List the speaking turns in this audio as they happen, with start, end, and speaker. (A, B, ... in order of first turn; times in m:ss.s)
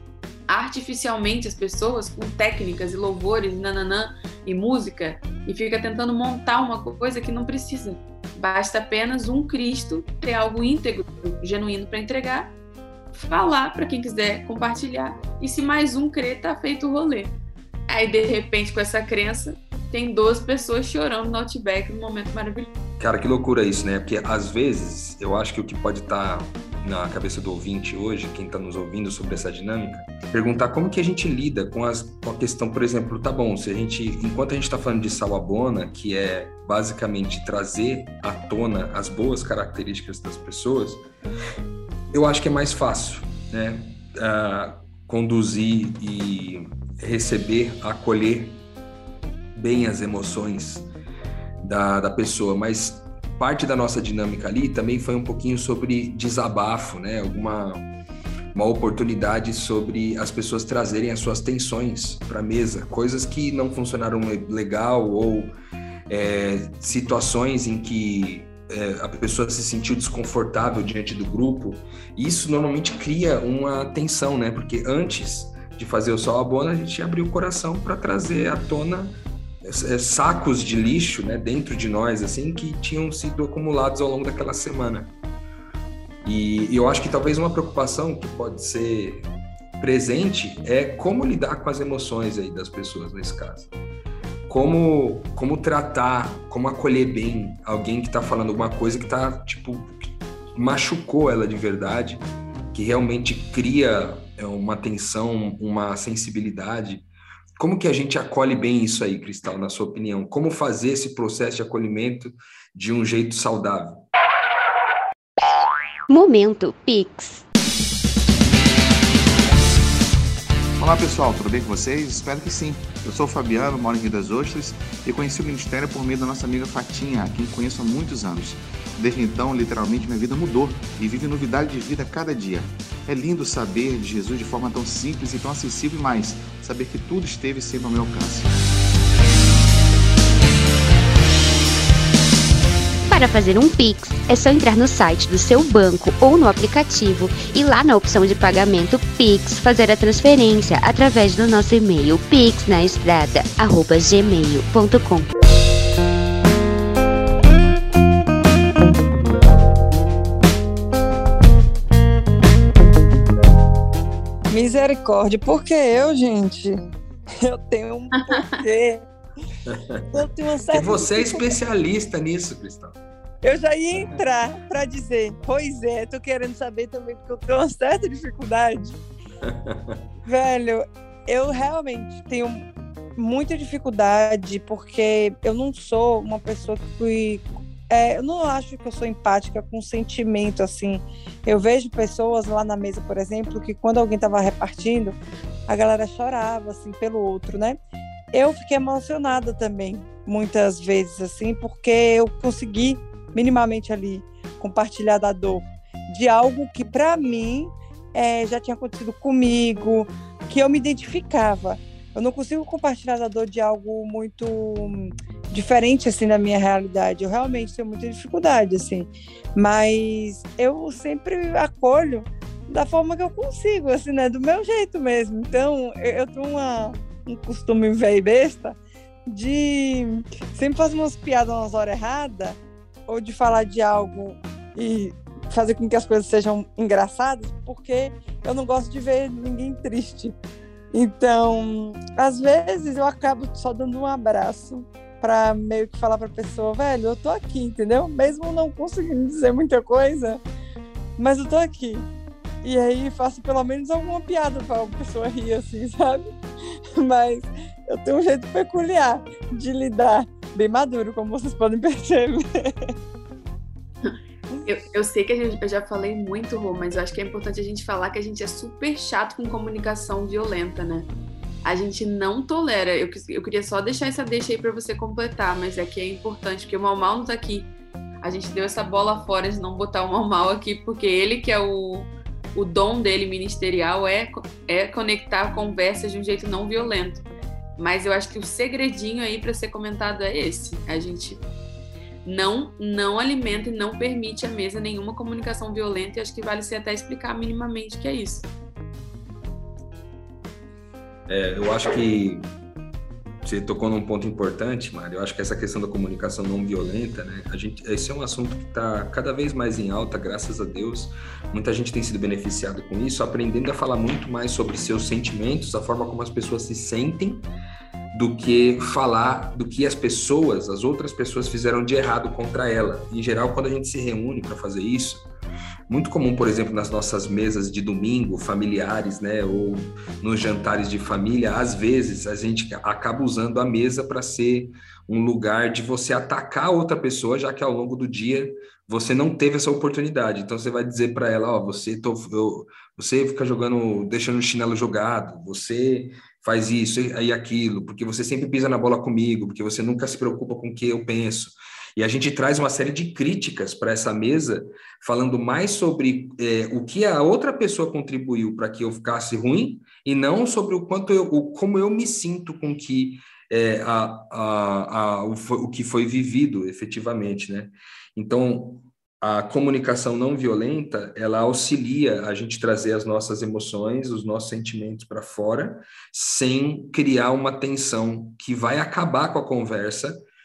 0:00.5-0:12.5 A
0:13.1-0:17.3 A
0:17.9-0:22.7 A
0:23.0-0:41.0 B
0:42.1-0:48.6 B
0:49.5-0:50.9 B
0:51.6-0:57.8 B
0:58.5-1:05.5 B
1:06.1-1:25.1 B
1:26.2-1:29.3 B
1:29.8-1:33.7 B
1:34.5-1:39.9 B
1:40.5-1:47.0 B
1:47.6-1:54.0 B
1:56.1-1:57.4 C
2:00.8-2:18.5 D
2:23.1-2:35.3 C
2:44.5-2:46.8 E
2:47.4-2:49.1 E
2:49.7-2:50.1 B
2:50.1-2:51.5 E
2:50.7-2:53.0 B
2:53.4-2:59.0 E
2:59.4-3:00.0 B
3:00.2-3:15.2 E
3:15.7-3:17.8 E
3:18.3-4:00.4 E
4:00.9-4:10.4 E
4:11.2-4:12.1 E
4:12.6-4:16.3 E
4:17.0-4:22.9 E
4:24.6-4:31.1 A
4:31.6-4:37.7 A
4:38.2-4:47.2 A
4:47.8-4:51.4 A
4:52.2-4:58.5 A
5:01.3-5:02.5 B
5:03.4-5:17.4 B
5:18.1-5:25.3 B
5:25.9-6:20.2 B